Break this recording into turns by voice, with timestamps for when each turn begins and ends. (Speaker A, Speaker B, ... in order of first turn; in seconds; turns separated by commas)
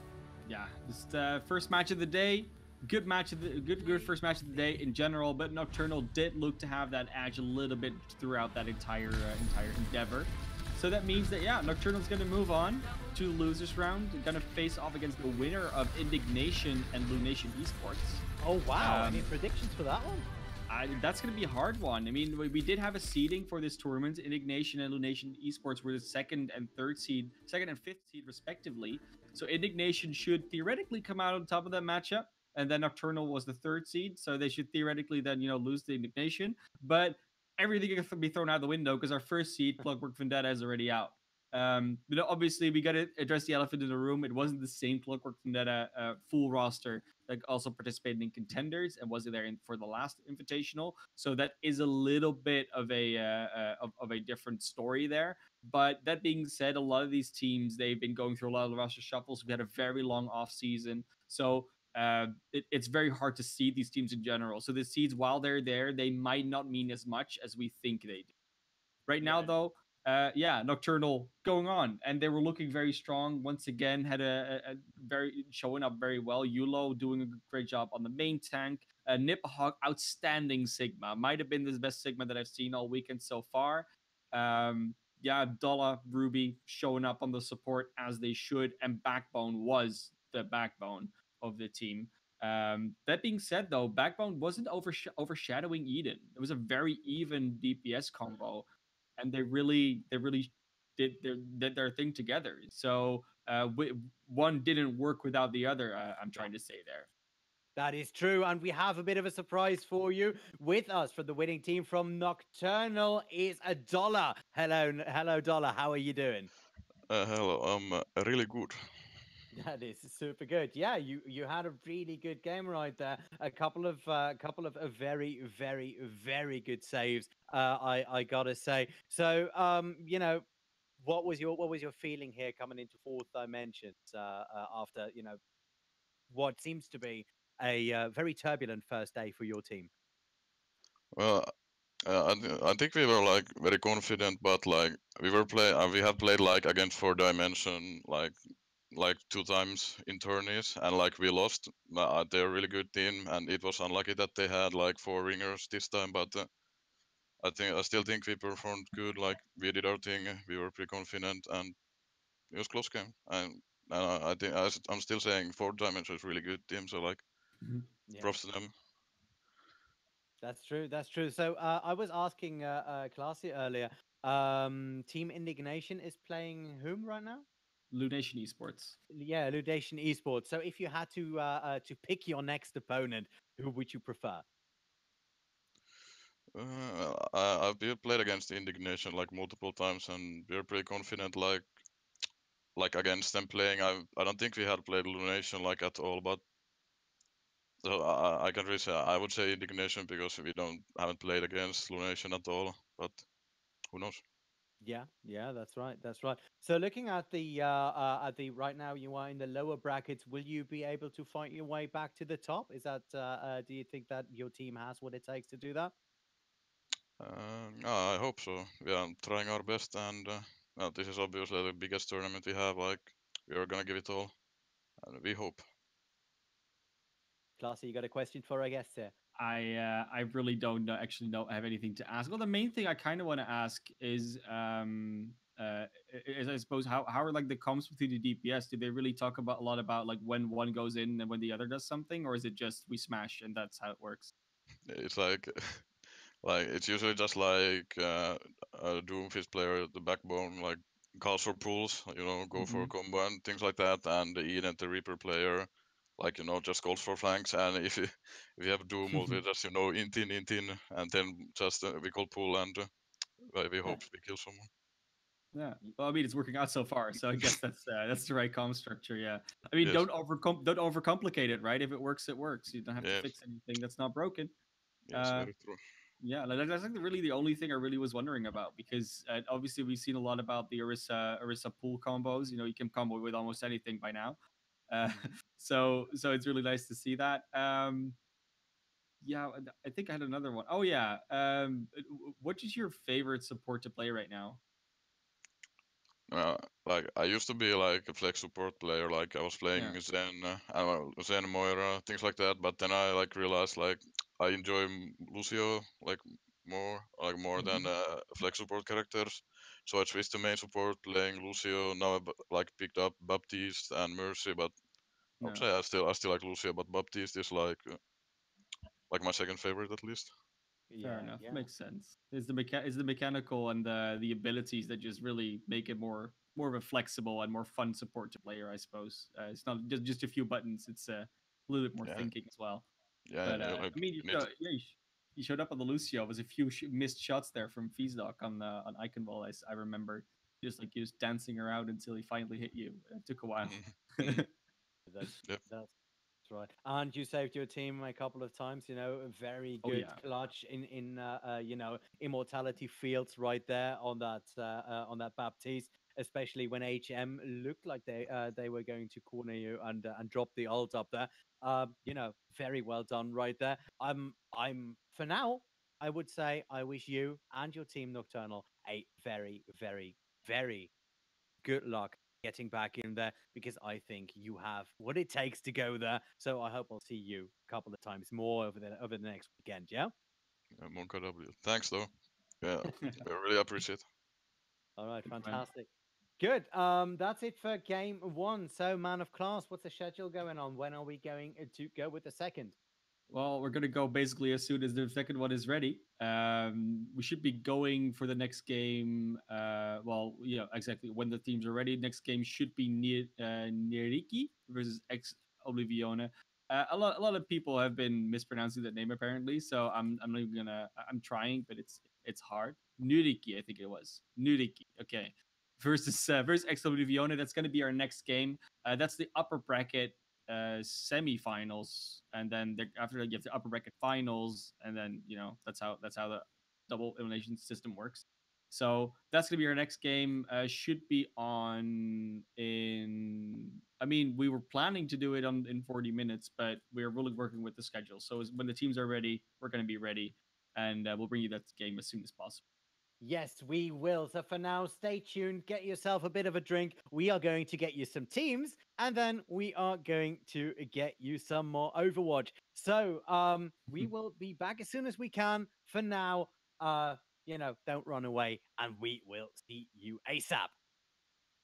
Speaker A: 0.5-18.2, Speaker B: 18.4-20.3, Speaker A: 18.8-19.3, Speaker A: 20.7-68.3, Speaker A: 69.1-107.1, Speaker B: 69.2-69.5, Speaker B: 107.8-116.5, Speaker C: 117.1-119.2, Speaker B: 119.5-130.4, Speaker B: 131.0-135.4, Speaker B: 136.3-139.9, Speaker C: 141.1-141.5, Speaker C: 142.1-148.4, Speaker C: 148.9-156.5, Speaker C: 157.4-161.8, Speaker C: 162.5-167.2, Speaker C: 168.2-168.7, Speaker B: 170.4-177.5, Speaker A: 177.9-179.0, Speaker B: 179.1-184.4, Speaker C: 186.6-191.7, Speaker C: 192.8-196.4, Speaker C: 197.8-203.2, Speaker C: 203.9-204.2, Speaker B: 204.8-215.9, Speaker C: 217.2-224.3, Speaker C: 225.0-225.6, Speaker B: 227.6-229.1, Speaker A: 229.4-244.3, Speaker C: 244.9-245.9, Speaker C: 246.4-262.9, Speaker A: 252.6-252.9, Speaker A: 259.1-259.4, Speaker C: 263.5-264.7, Speaker A: 265.5-274.5, Speaker C: 269.8-270.1, Speaker C: 273.0-273.3, Speaker C: 275.1-275.8, Speaker A: 275.1-275.5, Speaker A: 276.2-284.4, Speaker A: 284.9-288.2, Speaker A: 289.2-294.6, Speaker C: 296.3-314.8, Speaker A: 307.6-307.9, Speaker C: 315.4-318.0, Speaker C: 319.1-320.3, Speaker B: 320.9-321.7, Speaker A: 321.0-332.9, Speaker C: 332.0-332.3, Speaker C: 333.3-334.5, Speaker A: 333.4-344.5, Speaker C: 343.7-344.4, Speaker B: 345.1-345.9, Speaker B: 346.5-370.9, Speaker A: 349.8-350.2, Speaker B: 371.6-380.1, Speaker C: 380.8-384.0, Speaker B: 385.0-385.9, Speaker A: 385.3-385.6, Speaker B: 386.4-392.8, Speaker A: 393.3-442.6, Speaker B: 443.2-460.7